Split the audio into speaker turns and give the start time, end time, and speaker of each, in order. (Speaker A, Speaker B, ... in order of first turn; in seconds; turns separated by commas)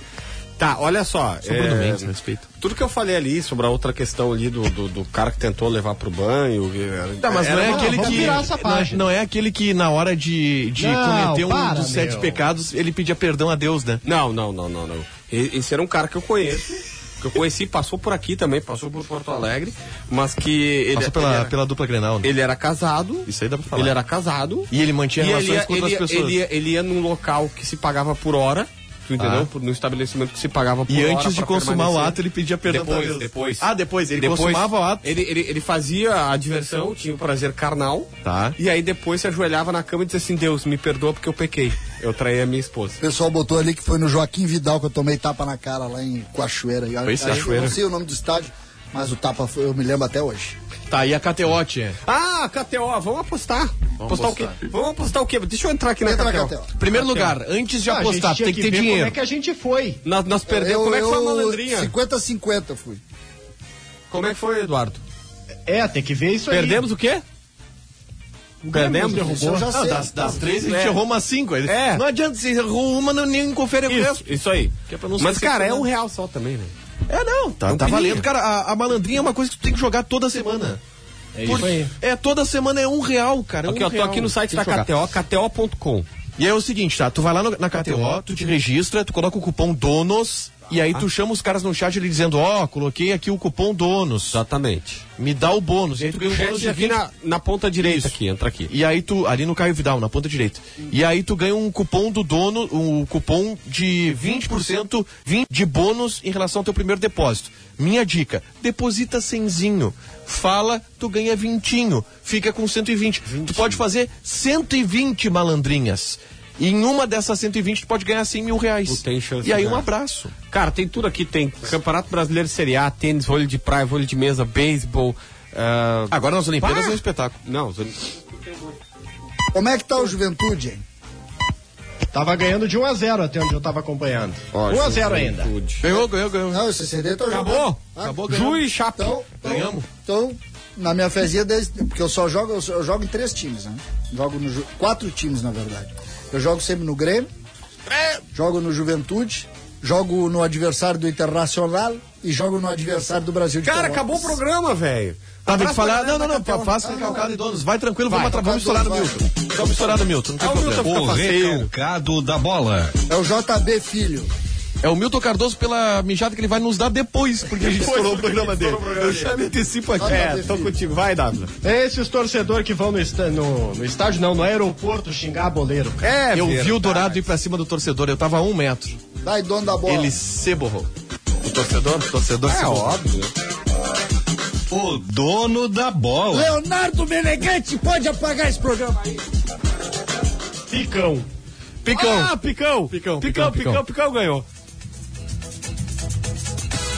Speaker A: 0.6-8.5, Speaker B: 1.4-2.4, Speaker B: 7.2-14.0, Speaker C: 7.6-9.0, Speaker C: 10.8-12.4, Speaker A: 14.0-21.5, Speaker B: 20.9-22.3, Speaker A: 22.2-43.0, Speaker B: 23.3-23.9, Speaker B: 24.7-26.4, Speaker B: 29.2-29.5, Speaker B: 30.9-35.0, Speaker B: 38.2-38.5, Speaker D: 43.0-50.5, Speaker B: 47.0-47.7, Speaker A: 47.2-47.7, Speaker B: 50.9-52.0, Speaker A: 52.0-57.3, Speaker B: 54.0-54.6, Speaker D: 56.0-56.7, Speaker B: 56.8-59.2, Speaker C: 57.9-60.0, Speaker A: 60.0-61.9, Speaker D: 60.5-63.0, Speaker A: 64.1-65.0, Speaker C: 65.7-66.8, Speaker A: 66.5-67.2, Speaker C: 68.6-69.7, Speaker A: 68.7-69.2, Speaker D: 69.2-70.2, Speaker B: 69.7-74.3, Speaker A: 70.6-71.0, Speaker A: 71.7-72.0, Speaker A: 73.9-76.7, Speaker B: 74.9-75.9, Speaker B: 77.1-80.8, Speaker A: 77.7-78.2, Speaker A: 81.4-81.7, Speaker C: 81.4-81.9, Speaker B: 81.4-84.9, Speaker A: 83.7-86.1, Speaker B: 86.4-94.4, Speaker A: 94.3-95.0, Speaker B: 95.2-97.0, Speaker A: 96.3-98.7, Speaker B: 97.8-98.1, Speaker B: 98.7-120.3, Speaker A: 113.2-113.8, Speaker A: 118.9-119.9, Speaker A: 120.5-128.6, Speaker B: 126.1-127.4, Speaker D: 129.5-130.8, Speaker C: 132.1-135.5, Speaker A: 134.5-135.8, Speaker B: 135.8-136.6, Speaker D: 136.5-138.2, Speaker A: 137.3-139.2, Speaker B: 138.0-138.6, Speaker D: 139.0-147.3, Speaker B: 139.3-139.9, Speaker A: 147.9-148.2, Speaker D: 148.3-154.4, Speaker A: 153.6-156.8, Speaker B: 155.4-160.9, Speaker D: 156.8-157.2, Speaker D: 158.1-159.2, Speaker A: 160.4-161.7, Speaker E: 160.8-162.9, Speaker D: 163.1-164.3, Speaker B: 164.8-170.2, Speaker A: 167.6-169.5, Speaker D: 170.0-170.8, Speaker A: 170.0-171.5, Speaker C: 171.6-176.1, Speaker A: 176.0-177.2, Speaker B: 176.3-179.0, Speaker D: 179.2-180.2, Speaker B: 179.9-180.9, Speaker B: 181.4-183.0, Speaker A: 182.4-183.3, Speaker E: 184.7-186.6, Speaker D: 186.3-189.2, Speaker C: 190.7-191.3, Speaker B: 191.8-193.8, Speaker A: 191.9-194.4